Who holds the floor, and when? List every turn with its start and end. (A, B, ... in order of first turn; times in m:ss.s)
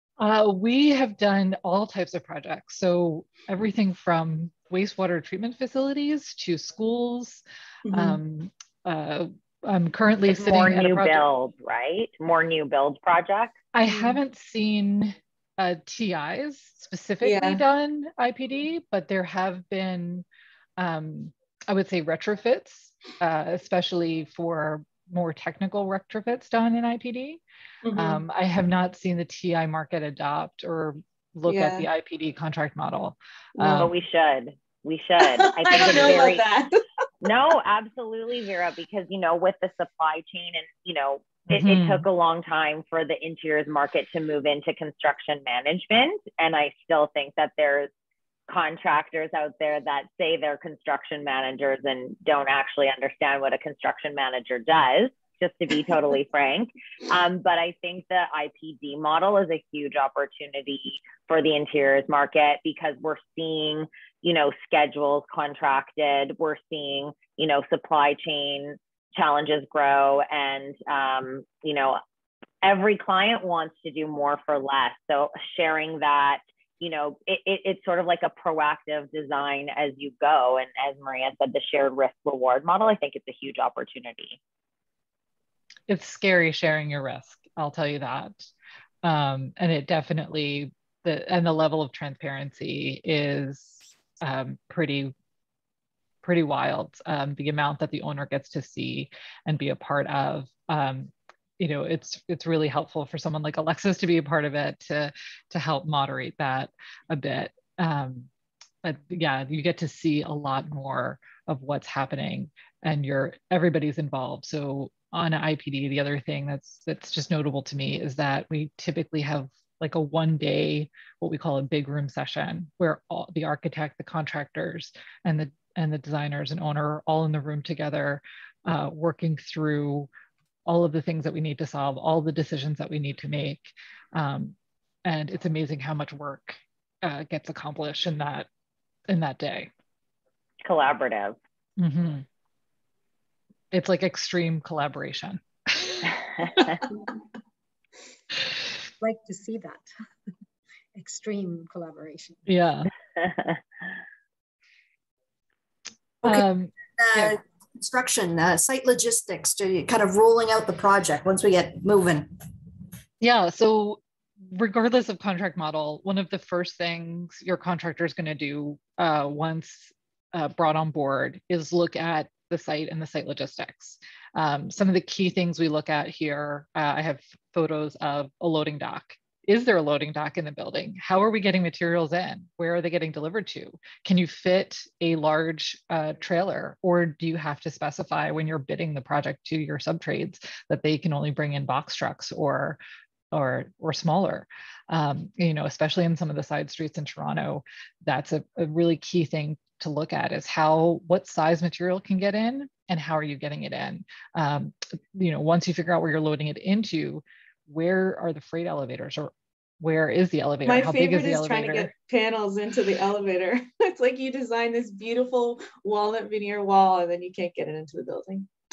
0:00.2-0:11.2 A
0:07.8-0:08.2 B
0:10.3-0:13.5 C
0:13.7-0:20.2 A
0:13.8-0:14.2 B
0:17.2-0:17.6 B
0:20.8-0:27.4 A
0:27.8-0:28.2 B
0:27.9-0:33.9 A
0:31.4-0:31.9 B
0:33.6-0:36.4 C
0:35.2-0:36.8 B
0:37.2-0:47.9 C
0:41.5-0:42.0 A
0:48.5-1:12.0 C
1:12.6-1:24.4 C
1:25.9-1:28.3 A
1:29.0-1:35.1 A
1:36.2-1:48.3 A
1:48.8-2:10.1 A
2:10.6-2:18.5 A
2:19.1-2:19.7 A
2:20.6-2:21.4 C
2:21.8-2:22.2 A
2:23.7-2:26.7 A
2:29.0-2:29.8 D
2:30.9-2:32.4 D
2:32.5-2:32.9 A
2:33.2-2:33.6 C
2:36.2-2:37.4 A
2:37.0-2:42.3 E
2:43.2-3:12.8 A
3:13.3-3:31.9 A
3:30.6-3:38.5 B